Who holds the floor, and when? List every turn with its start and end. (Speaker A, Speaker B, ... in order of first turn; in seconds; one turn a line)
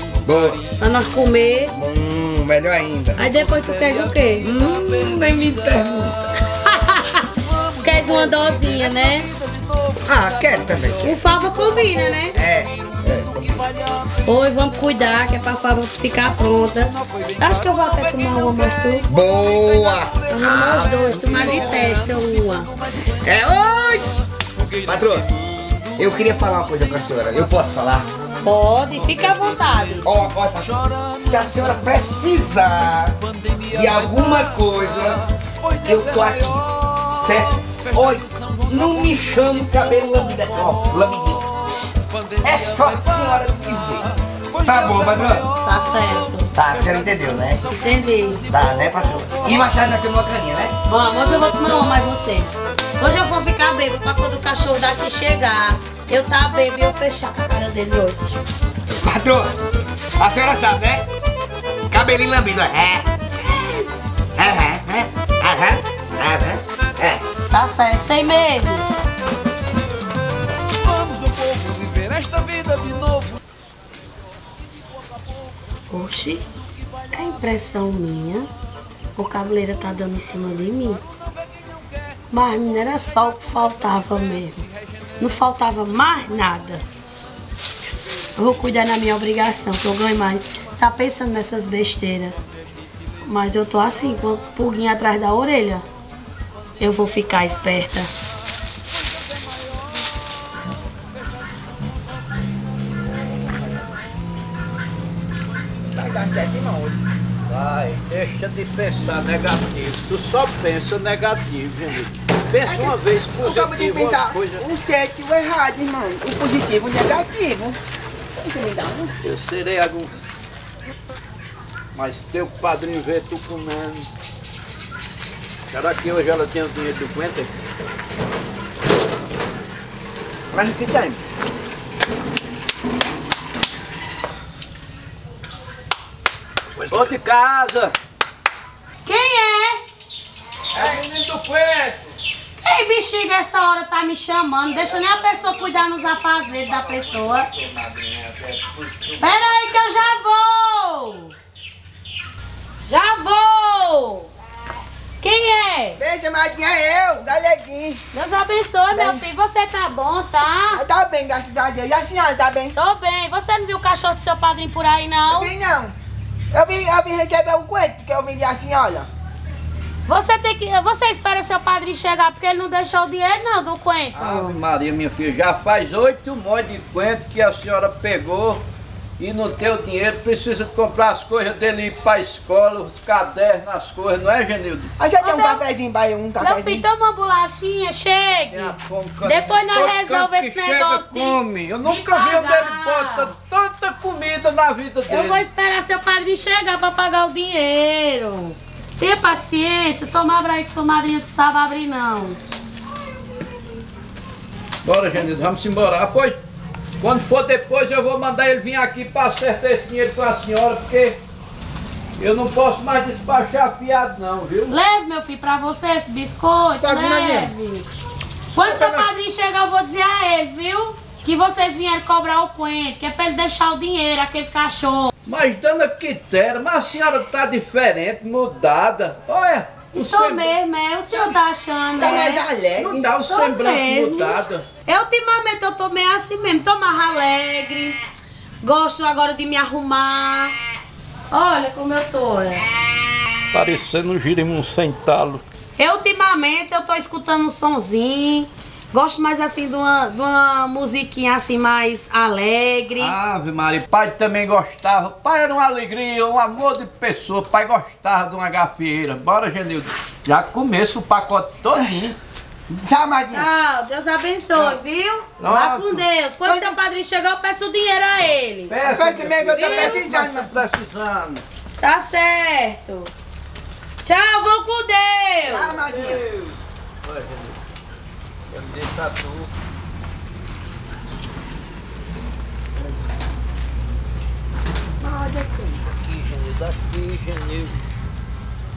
Speaker A: 0.2-0.7
Speaker B: 0.7-1.7
Speaker A: 1.7-3.2
Speaker B: 3.2-4.5
Speaker A: 4.4-6.1
Speaker B: 5.2-6.1
Speaker B: 6.6-7.2
Speaker B: 7.8-9.4
Speaker A: 10.1-11.2
Speaker B: 11.1-12.4
Speaker A: 12.3-13.7
Speaker B: 14.2-19.1
Speaker A: 19.1-21.9
Speaker B: 20.3-22.7
Speaker A: 23.2-24.2
Speaker A: 24.8-25.3
Speaker A: 26.0-28.1
Speaker B: 28.4-30.1
Speaker A: 30.0-33.2
Speaker A: 33.7-35.3
Speaker A: 35.8-36.6
Speaker A: 37.2-41.5
Speaker A: 42.4-45.5
Speaker B: 45.6-46.5
Speaker A: 46.5-47.7
Speaker B: 47.7-48.4
Speaker A: 48.5-50.7
Speaker B: 50.9-52.5
Speaker B: 53.0-58.4
Speaker A: 59.0-59.5
Speaker A: 60.2-61.0
Speaker A: 61.9-63.7
Speaker A: 64.4-67.2
Speaker B: 67.5-68.8
Speaker B: 75.9-76.4
Speaker B: 77.1-78.5
Speaker B: 79.2-81.0
Speaker B: 82.3-84.6
Speaker B: 85.2-86.8
Speaker B: 88.4-92.3
Speaker B: 93.2-95.8
Speaker B: 96.8-98.1
Speaker C: 105.9-107.0
Speaker D: 107.5-114.6
Speaker C: 112.7-117.8
Speaker C: 118.4-119.1
Speaker D: 119.2-120.1
Speaker D: 122.0-124.1
Speaker D: 125.7-127.5
Speaker C: 130.5-131.2
Speaker D: 136.9-137.9
Speaker B: 139.1-139.8
Speaker D: 140.7-142.1
Speaker B: 142.6-147.5
Speaker D: 144.7-150.2
Speaker B: 149.2-151.3
Speaker B: 152.9-154.3
Speaker B: 155.2-156.0
Speaker C: 156.0-158.0
Speaker B: 158.1-160.8
Speaker C: 158.9-159.2
Speaker C: 160.7-162.7
Speaker B: 162.8-165.5
Speaker C: 165.3-165.9
Speaker C: 166.5-169.1
Speaker B: 170.1-174.6
Speaker D: 174.1-178.7
Speaker D: 179.2-184.9
Speaker C: 185.0-186.8
Speaker B: 185.2-185.6
Speaker B: 186.4-193.3
Speaker D: 188.5-195.4
Speaker B: 195.1-202.4
Speaker D: 204.8-206.4
Speaker D: 207.0-211.2
Speaker D: 212.2-214.8
Speaker B: 214.7-217.9
Speaker D: 216.8-217.4
Speaker C: 216.8-217.5
Speaker B: 218.5-225.1
Speaker D: 218.6-219.1
Speaker D: 225.2-230.6
Speaker B: 229.9-232.4
Speaker C: 231.1-231.4
Speaker C: 232.0-233.1
Speaker D: 232.8-234.7
Speaker B: 233.2-238.0
Speaker B: 238.6-240.5
Speaker B: 241.3-242.7
Speaker D: 243.5-245.4
Speaker B: 245.8-253.1
Speaker D: 253.0-262.2
Speaker C: 262.9-263.5
Speaker B: 263.3-268.7
Speaker D: 264.5-264.8
Speaker D: 265.4-266.1
Speaker C: 266.4-266.8
Speaker D: 268.7-271.4
Speaker C: 268.8-270.5
Speaker B: 269.6-270.0
Speaker B: 271.8-273.1
Speaker B: 274.0-275.8
Speaker C: 275.4-276.2
Speaker D: 275.6-276.5
Speaker D: 277.0-277.6
Speaker D: 278.5-279.5
Speaker C: 285.0-285.8
Speaker D: 285.9-287.8